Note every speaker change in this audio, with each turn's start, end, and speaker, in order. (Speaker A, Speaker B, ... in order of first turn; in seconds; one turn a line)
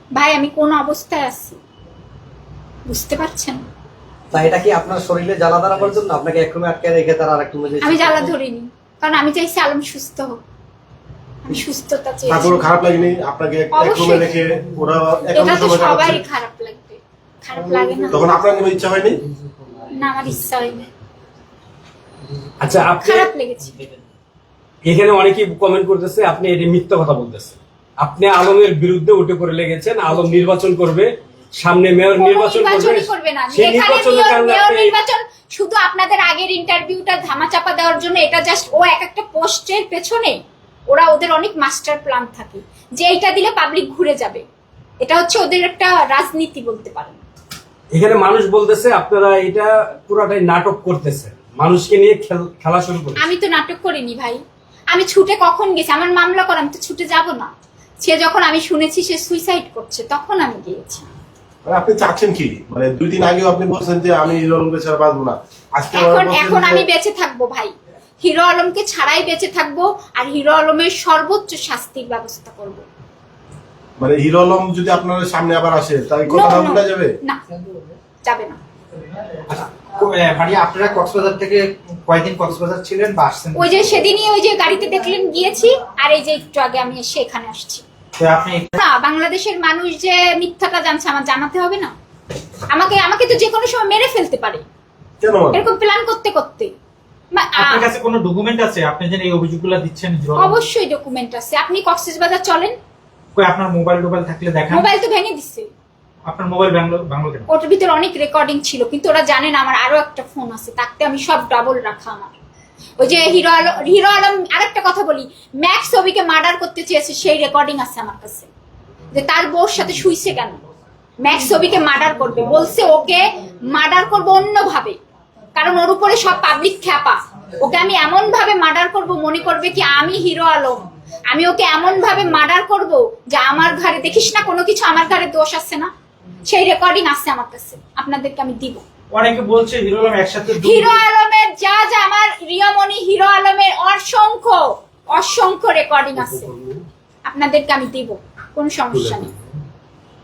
Speaker A: 0.1-1.6
Speaker A: 2.9-3.6
Speaker B: 4.3-8.3
Speaker A: 7.8-10.4
Speaker A: 11.4-12.6
Speaker C: 12.3-16.2
Speaker A: 13.7-14.3
Speaker A: 15.3-18.4
Speaker C: 18.1-19.2
Speaker A: 19.9-20.9
Speaker D: 22.6-23.3
Speaker A: 23.0-23.8
Speaker D: 24.9-34.9
Speaker A: 32.2-44.4
Speaker A: 45.0-47.2
Speaker D: 47.9-53.2
Speaker A: 53.2-54.4
Speaker A: 54.9-61.1
Speaker C: 61.6-66.9
Speaker A: 65.9-72.8
Speaker C: 74.0-77.1
Speaker A: 76.3-77.4
Speaker A: 78.2-78.6
Speaker E: 79.3-83.8
Speaker A: 83.5-87.8
Speaker E: 88.2-88.8
Speaker A: 88.8-91.9
Speaker A: 92.7-94.6
Speaker C: 95.2-95.6
Speaker A: 95.5-96.7
Speaker A: 97.3-97.8
Speaker E: 97.5-100.6
Speaker A: 100.3-102.8
Speaker E: 103.3-104.9
Speaker A: 104.7-105.7
Speaker E: 106.3-107.5
Speaker A: 107.5-112.3
Speaker A: 113.0-118.5
Speaker A: 119.1-120.6
Speaker A: 121.2-125.0
Speaker A: 125.5-135.9
Speaker A: 136.4-138.8
Speaker E: 139.1-141.0
Speaker A: 140.6-146.5
Speaker D: 146.2-146.8
Speaker A: 147.2-149.3
Speaker D: 148.9-149.4